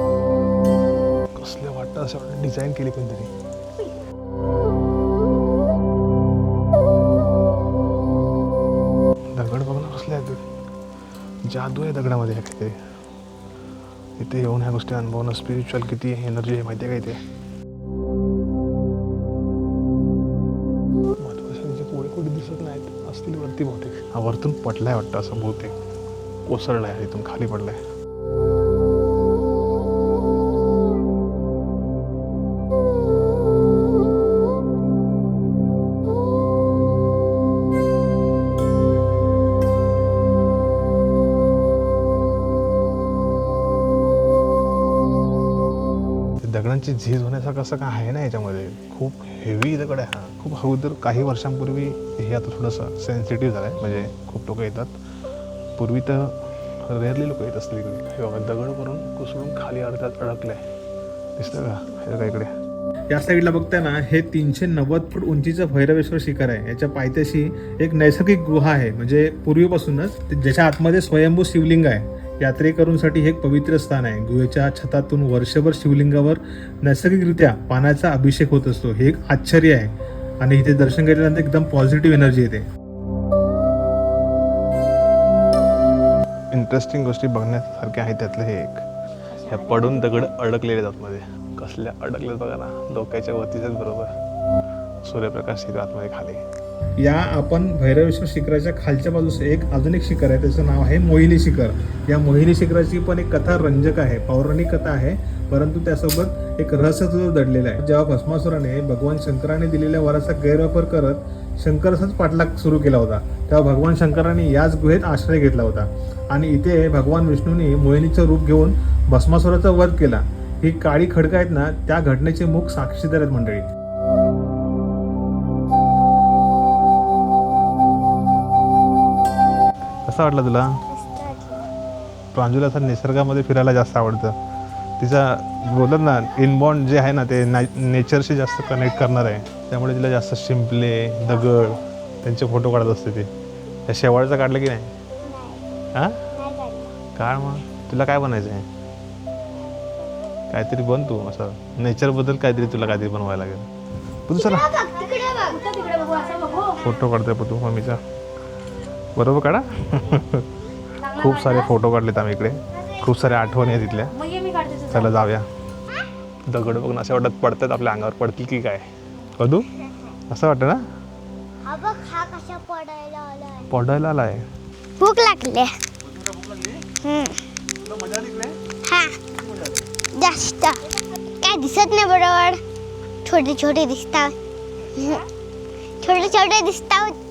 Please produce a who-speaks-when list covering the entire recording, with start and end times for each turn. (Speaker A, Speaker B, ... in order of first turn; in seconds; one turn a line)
Speaker A: 1.4-3.3
Speaker A: 9.3-10.4
Speaker A: 11.5-12.8
Speaker A: 14.2-17.2
Speaker A: 21.2-25.8
Speaker A: 26.5-27.8
Speaker A: 46.4-54.9
Speaker A: 55.8-60.6
Speaker A: 61.4-62.5
Speaker A: 63.1-82.7
Speaker A: 86.5-88.8
Speaker B: 89.3-90.3
Speaker A: 89.5-94.2
Speaker A: 95.0-96.4
Speaker A: 97.0-123.7
Speaker A: 130.1-130.8
Speaker C: 130.9-131.7
Speaker A: 132.3-134.4
Speaker A: 135.0-143.3
Speaker A: 143.9-144.9
Speaker C: 145.2-145.7
Speaker A: 145.9-146.2
Speaker C: 146.3-147.0
Speaker A: 147.2-148.7
Speaker A: 150.5-153.7
Speaker A: 154.3-154.7
Speaker C: 154.3-156.9
Speaker B: 155.2-156.8
Speaker A: 156.8-158.0
Speaker A: 159.2-160.5
Speaker B: 161.0-161.7
Speaker A: 161.2-164.1
Speaker B: 164.1-165.2
Speaker A: 164.9-165.5
Speaker A: 166.5-169.7
Speaker A: 170.3-170.8
Speaker C: 171.7-173.7
Speaker A: 173.7-174.5
Speaker C: 175.0-175.8
Speaker C: 176.9-177.5
Speaker C: 178.8-179.2
Speaker C: 180.1-182.6
Speaker C: 183.2-184.3
Speaker C: 184.9-185.2
Speaker C: 186.0-187.2